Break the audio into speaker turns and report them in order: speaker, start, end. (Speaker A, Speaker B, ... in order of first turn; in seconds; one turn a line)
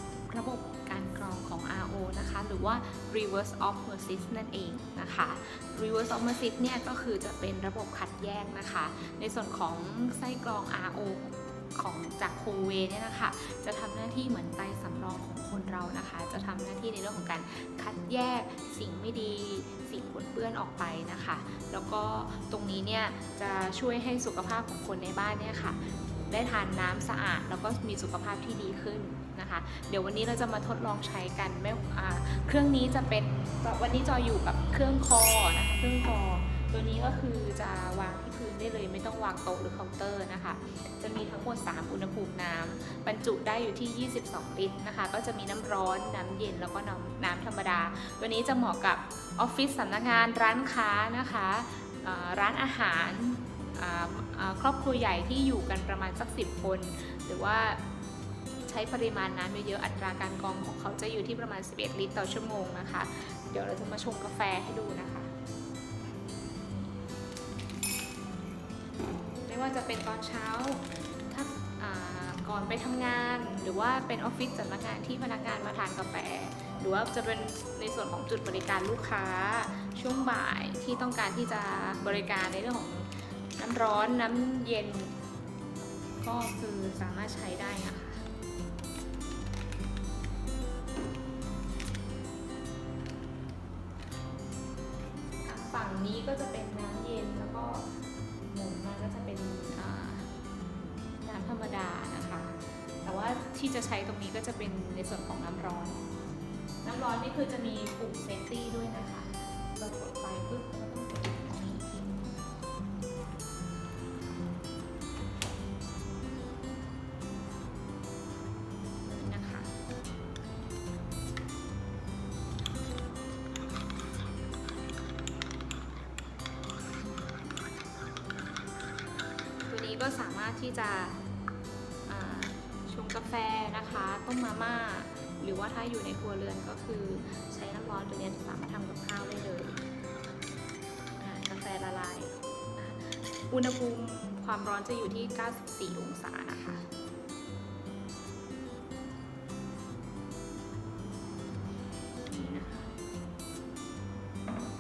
Speaker A: 0.3-57.8
Speaker A: 58.6-65.3
Speaker A: 69.5-85.1
Speaker A: 86.2-88.2
Speaker A: 95.4-97.9
Speaker A: 98.5-100.3
Speaker A: 101.2-106.0
Speaker A: 106.8-112.3
Speaker A: 119.0-119.7
Speaker A: 129.7-131.2
Speaker A: 132.1-139.8
Speaker A: 141.2-146.8
Speaker A: 152.2-152.9